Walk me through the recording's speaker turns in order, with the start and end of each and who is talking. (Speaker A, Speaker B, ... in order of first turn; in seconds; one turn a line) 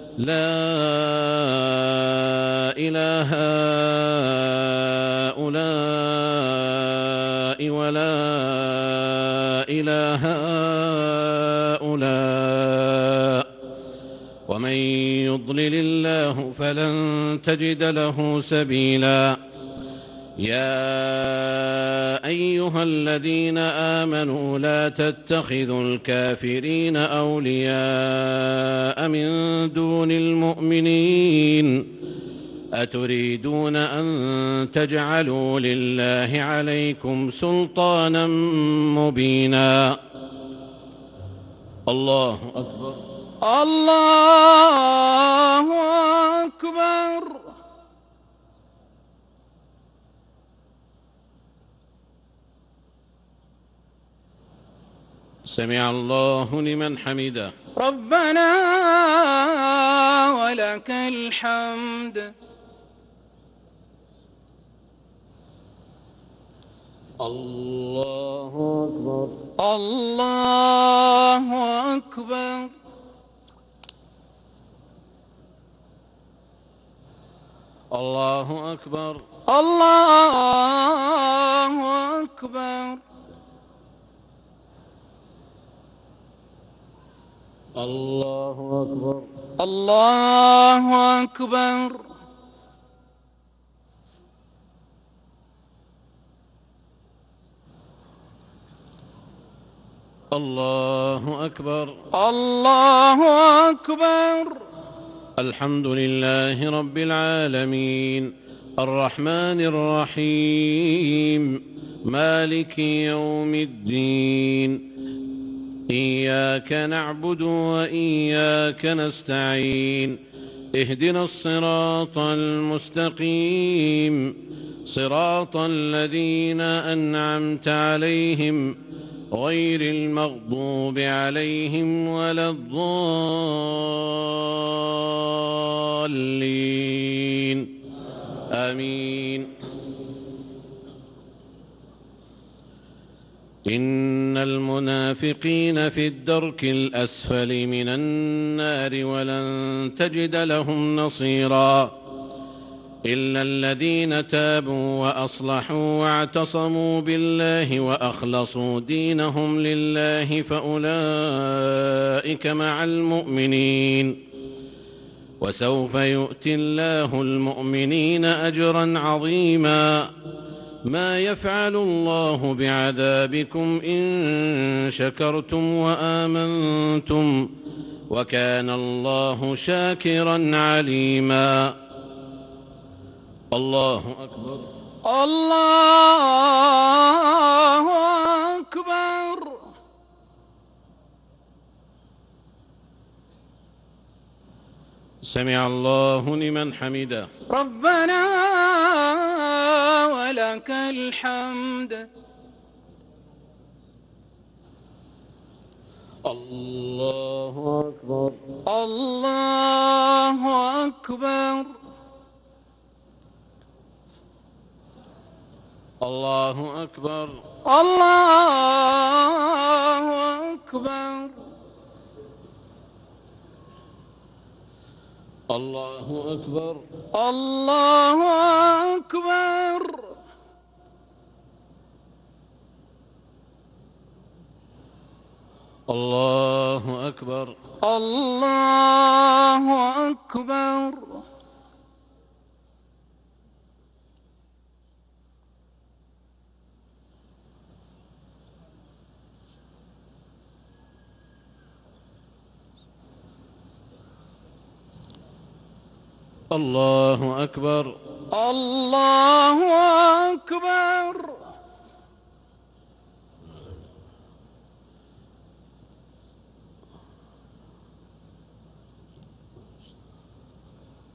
Speaker A: 0.2-13.5
Speaker A: 14.5-19.4
Speaker A: 20.4-31.9
Speaker A: 32.7-40.0
Speaker A: 41.9-43.0
Speaker B: 43.4-47.5
Speaker A: 55.5-57.5
Speaker B: 57.8-62.3
Speaker A: 67.2-69.5
Speaker B: 69.6-72.7
Speaker A: 77.9-79.2
Speaker B: 79.5-83.0
Speaker A: 87.8-89.3
Speaker B: 89.6-92.1
Speaker A: 100.3-102.0
Speaker B: 102.1-104.6
Speaker A: 105.4-114.9
Speaker A: 115.9-120.2
Speaker A: 120.7-128.8
Speaker A: 129.3-137.7
Speaker A: 138.5-139.5
Speaker A: 143.7-152.0
Speaker A: 153.0-164.2
Speaker A: 165.4-170.1
Speaker A: 170.8-177.5
Speaker A: 178.1-181.8
Speaker A: 183.5-184.7
Speaker B: 185.0-189.7
Speaker A: 195.2-197.3
Speaker B: 197.5-202.1
Speaker A: 206.2-208.4
Speaker B: 208.6-211.7
Speaker A: 216.0-217.4
Speaker B: 217.6-221.4
Speaker A: 225.5-226.8
Speaker B: 227.1-230.2
Speaker A: 235.9-237.6
Speaker B: 237.8-241.2
Speaker A: 256.5-258.0
Speaker B: 258.3-261.5